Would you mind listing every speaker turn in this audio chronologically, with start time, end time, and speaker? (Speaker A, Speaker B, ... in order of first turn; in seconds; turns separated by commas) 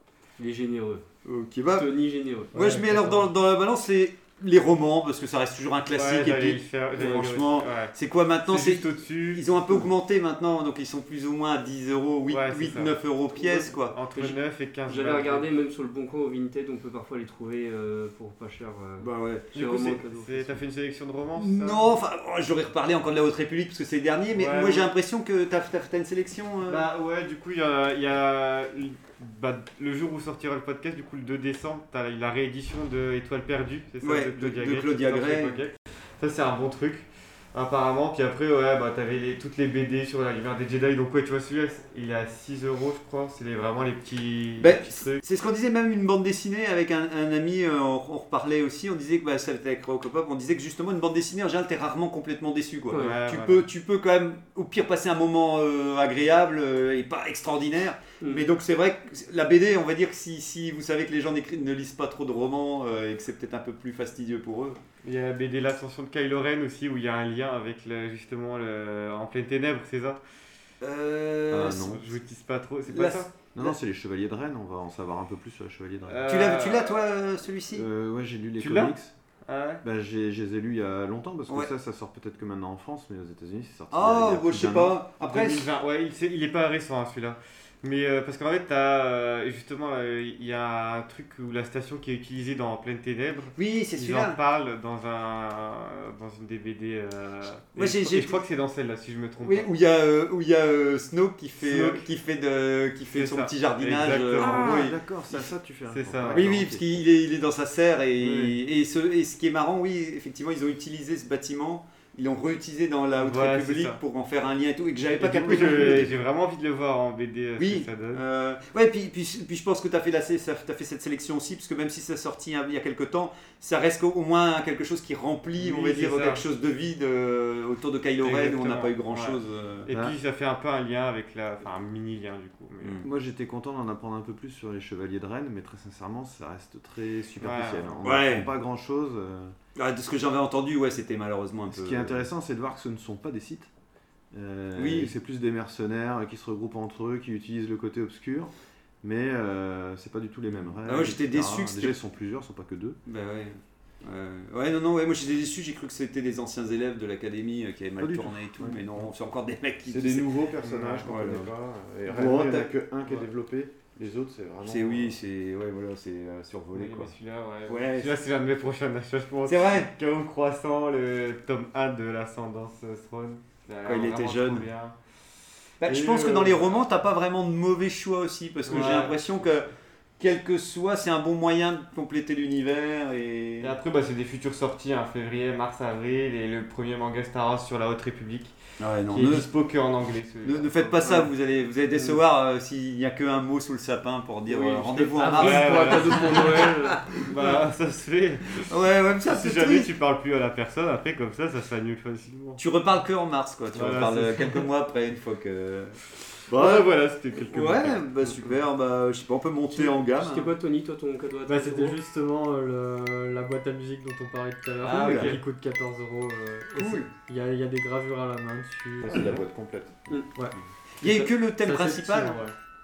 Speaker A: 0.4-1.0, Speaker B: 1.2-1.9, Speaker A: 1.7-2.5, Speaker B: 2.5-14.0, Speaker C: 2.5-3.2, Speaker D: 5.9-7.9, Speaker D: 8.5-9.4, Speaker D: 12.3-13.0, Speaker D: 13.6-15.5, Speaker A: 14.1-20.6, Speaker B: 19.0-19.5, Speaker D: 19.5-22.0, Speaker B: 21.4-26.9, Speaker D: 24.3-24.9, Speaker D: 26.6-45.2, Speaker B: 34.0-35.5, Speaker B: 44.6-64.8, Speaker A: 52.9-53.2, Speaker D: 52.9-53.7, Speaker A: 58.2-58.5, Speaker D: 65.0-70.2, Speaker B: 70.8-72.0, Speaker E: 71.5-72.1, Speaker D: 71.8-73.3, Speaker B: 72.9-73.7, Speaker E: 73.5-76.2, Speaker D: 76.1-77.0, Speaker B: 76.3-77.8, Speaker E: 77.7-79.1, Speaker D: 78.6-78.9, Speaker D: 79.5-79.8, Speaker E: 79.8-85.0, Speaker B: 83.9-85.7, Speaker D: 85.2-99.7, Speaker B: 93.6-94.4, Speaker B: 97.8-98.4, Speaker B: 99.4-105.4, Speaker D: 101.6-102.0, Speaker D: 103.1-104.9, Speaker E: 104.4-107.0, Speaker D: 105.9-106.5, Speaker B: 106.3-116.1, Speaker D: 108.2-108.6, Speaker D: 113.2-114.0, Speaker D: 115.2-118.2, Speaker E: 115.5-115.8, Speaker B: 117.6-129.9, Speaker D: 125.6-126.4, Speaker D: 128.2-133.0, Speaker E: 133.0-139.5, Speaker D: 137.4-137.9, Speaker B: 138.0-138.5, Speaker B: 139.8-142.2, Speaker E: 141.7-143.7, Speaker E: 144.3-153.0, Speaker B: 144.8-145.1, Speaker B: 150.8-151.9, Speaker B: 153.1-160.3, Speaker E: 158.0-158.8, Speaker E: 159.8-165.2, Speaker D: 160.6-161.0, Speaker B: 161.0-161.5, Speaker B: 162.1-162.7, Speaker B: 164.7-167.1, Speaker D: 166.7-174.9, Speaker B: 167.7-168.1, Speaker B: 169.5-169.9, Speaker B: 173.8-174.7, Speaker B: 175.8-183.8, Speaker D: 175.8-176.6, Speaker D: 178.6-179.2, Speaker D: 183.6-188.5, Speaker B: 188.8-189.5, Speaker D: 189.1-191.0, Speaker B: 190.4-197.6, Speaker A: 191.0-191.3, Speaker A: 194.5-197.2, Speaker D: 195.2-196.7, Speaker D: 197.2-198.7, Speaker B: 198.6-199.9, Speaker D: 199.2-202.6, Speaker B: 202.6-206.0, Speaker D: 203.7-204.6, Speaker D: 206.5-208.3, Speaker B: 206.5-206.9, Speaker B: 207.5-210.5, Speaker A: 209.7-211.9, Speaker C: 211.5-219.3, Speaker B: 214.8-215.4, Speaker D: 214.9-215.4, Speaker B: 216.8-217.1, Speaker E: 219.0-220.2, Speaker C: 220.3-222.5, Speaker B: 221.0-222.4